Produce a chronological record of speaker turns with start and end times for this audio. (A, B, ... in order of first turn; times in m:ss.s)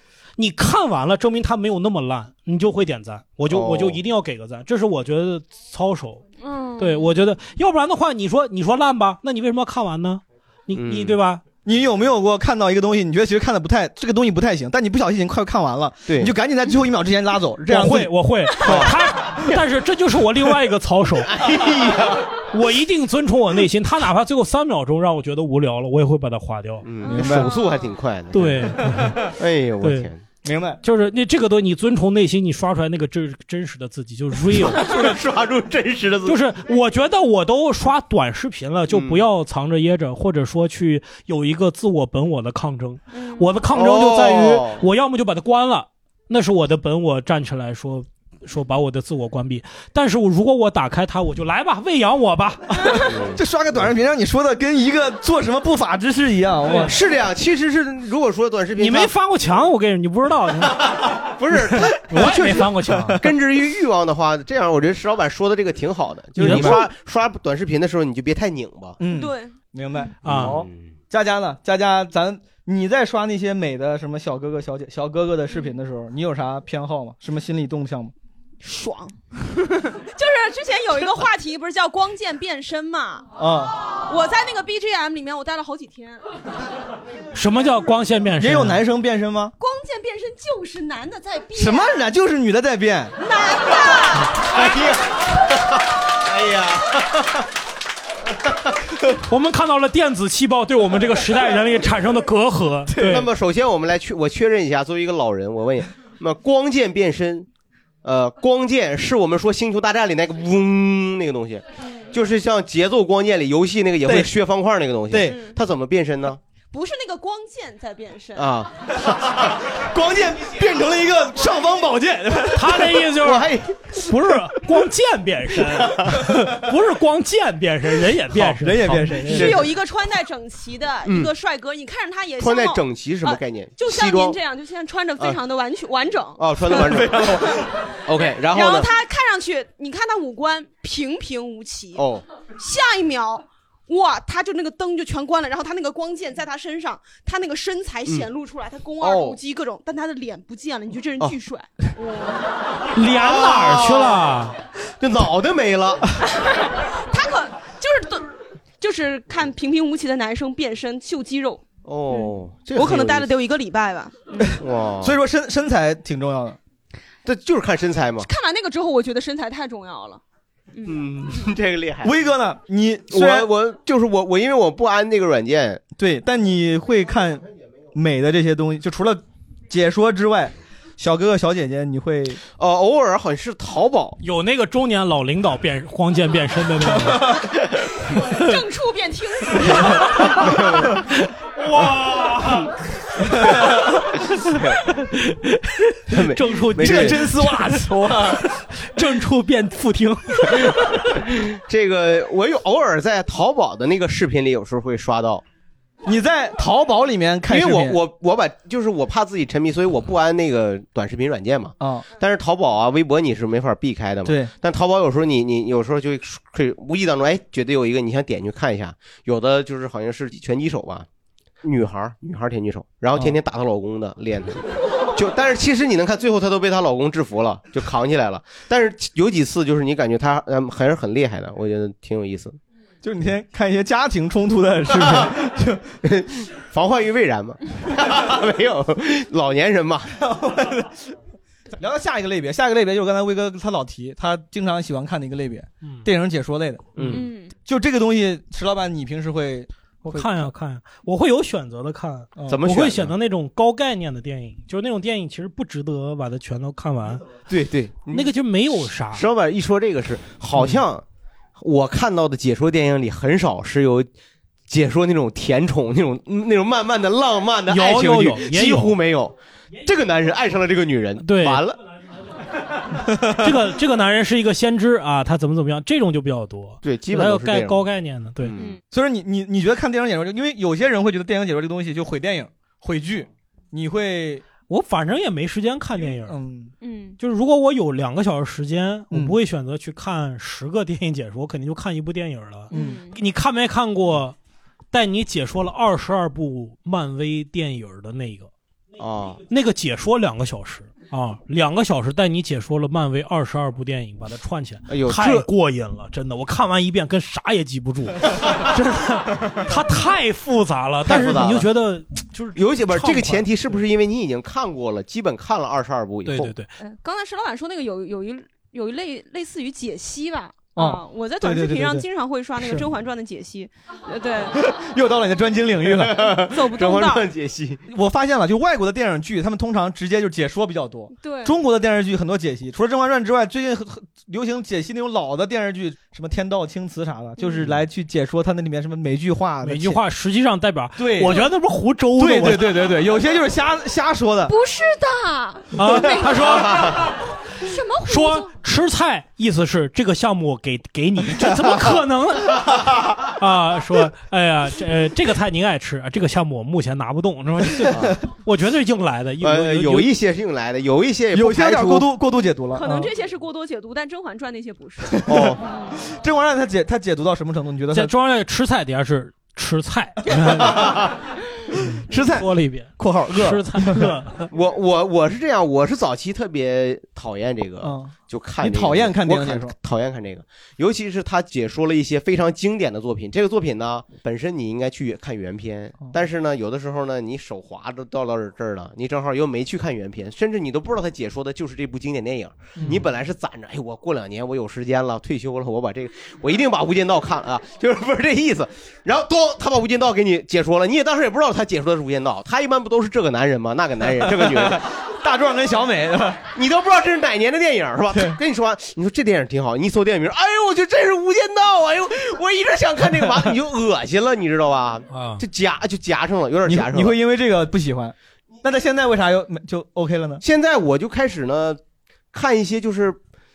0:00.4-0:06.2 A
0:03.5-0:04.0 B
0:06.4-0:07.1 C
0:06.8-0:11.4 A
0:10.7-0:11.2 B
0:11.6-0:18.9 D
0:16.1-0:16.3 B
0:17.7-0:21.5 A
0:21.3-0:22.3 B
0:22.5-0:27.2 A
0:26.8-0:30.2 B
0:27.1-0:27.5 D
0:28.3-0:29.2 A
0:29.8-0:30.1 A
0:30.4-0:30.8 D
0:30.8-0:35.1 A
0:34.6-0:36.4 B
0:36.2-0:53.1 A
0:38.9-0:39.2 B
0:43.1-0:43.4 C
0:43.7-0:44.8 B
0:52.9-0:57.0 D
0:53.1-0:53.4 B
0:56.6-0:56.9 A
0:56.9-0:59.1 B
0:58.8-1:01.0 A
1:00.9-1:02.7 B
1:01.5-1:03.1 A
1:02.1-1:03.3 D
1:03.2-1:09.0 B
1:06.4-1:06.8 D
1:06.4-1:06.8 A
1:09.0-1:18.1 D
1:09.1-1:09.5 C
1:10.2-1:10.6 A
1:10.4-1:10.7 B
1:18.6-1:23.3 C
1:23.4-1:23.8 D
1:24.1-1:26.2 C
1:27.3-1:28.8 A
1:28.4-1:29.5 D
1:29.6-1:32.0 C
1:31.6-1:33.1 D
1:33.2-1:35.0 C
1:34.4-1:37.4 B
1:38.5-1:38.8 B
1:39.2-1:43.3 A
1:43.0-1:47.5 B
1:48.0-1:56.4 B
1:54.0-1:54.3 D
1:55.1-1:55.4 D
1:55.2-1:55.5 C
1:56.7-1:58.5 C
1:58.4-1:59.5 B
1:59.9-2:03.0 D
2:02.5-2:03.5 A
2:03.2-2:03.9 B
2:04.1-2:09.5 A
2:05.8-2:06.1 B
2:08.3-2:09.6 D
2:09.3-2:17.0 C
2:09.3-2:09.6 B
2:12.4-2:14.4 B
2:16.4-2:18.9 B
2:16.8-2:17.5 D
2:18.1-2:22.0 C
2:22.0-2:22.2 B
2:22.6-2:32.4 C
2:29.0-2:29.4 B
2:32.9-2:34.6 A
2:33.2-2:34.2 B
2:35.0-2:36.1 B
2:36.3-2:38.3 C
2:38.8-2:44.5 C
2:41.9-2:43.3 B
2:44.4-2:46.6 D
2:44.6-2:45.2 B
2:47.2-2:48.3 B
2:48.2-2:50.2 C
2:50.8-2:52.2 B
2:52.0-2:53.5 D
2:53.1-2:55.8 B
2:56.0-3:02.4 D
3:02.6-3:04.2 B
3:04.2-3:07.4 A
3:08.1-3:10.6 C
3:10.4-3:10.9 B
3:11.2-3:12.7 A
3:14.5-3:20.8 A
3:16.1-3:17.2 B
3:16.8-3:18.4 D
3:21.2-3:25.4 B
3:26.0-3:28.0 D
3:27.5-3:41.1 B
3:31.8-3:32.0 D
3:34.2-3:34.5 D
3:41.6-3:52.6 B
3:53.0-3:55.9 D
3:55.0-3:55.3 B
3:56.0-4:00.2 B
4:00.2-4:00.9 D
4:01.8-4:10.4 D
4:05.8-4:06.1 A
4:07.0-4:07.3 B
4:07.1-4:07.5 C
4:10.0-4:17.3 A
4:12.5-4:13.1 B
4:17.5-4:18.3 B
4:18.1-4:19.2 A
4:19.1-4:21.0 B
4:21.6-4:24.1 B
4:24.7-4:31.8 B
4:27.7-4:29.0 A
4:31.2-4:31.6 A
4:33.2-4:38.5 A
4:36.8-4:37.8 B
4:38.4-4:38.8 B
4:38.9-4:44.4 D
4:44.7-4:46.4 A
4:46.2-4:46.7 D
4:46.8-4:47.2 C
4:47.2-4:54.4 A
4:52.7-4:53.1 C
4:52.7-4:53.0 D
4:54.9-4:58.5 A
4:59.0-4:59.4 B
4:59.5-5:13.5 A
5:04.9-5:05.5 B
5:11.0-5:11.7 B
5:12.5-5:16.5 B
5:16.3-5:16.7 A
5:16.8-5:24.7 C
5:20.7-5:22.0 D
5:24.5-5:26.4 D
5:25.9-5:27.8 B
5:26.3-5:27.3 C
5:27.9-5:40.0 D
5:31.2-5:31.6 C
5:37.4-5:37.6 C
5:39.6-5:42.9 A
5:41.0-5:41.4 D
5:42.2-5:44.6 D
5:44.5-5:48.5 C
5:45.7-5:47.0 A
5:48.0-6:00.1 A
5:51.4-5:51.8 D
5:57.9-5:58.2 B
5:59.4-6:02.1 B
6:01.3-6:03.1 D
6:02.7-6:06.0 C
6:05.1-6:08.1 D
6:05.3-6:05.6 B
6:07.9-6:10.9 A
6:10.4-6:11.0 D
6:11.9-6:14.4 A
6:11.9-6:14.1 D
6:14.5-6:44.8 B
6:17.8-6:19.7 D
6:44.1-6:46.4 D
6:46.5-6:57.2 B
6:53.2-6:53.5 D
6:55.1-6:55.4 A
6:56.6-7:00.4 D
7:00.4-7:01.8 B
7:02.3-7:03.2 B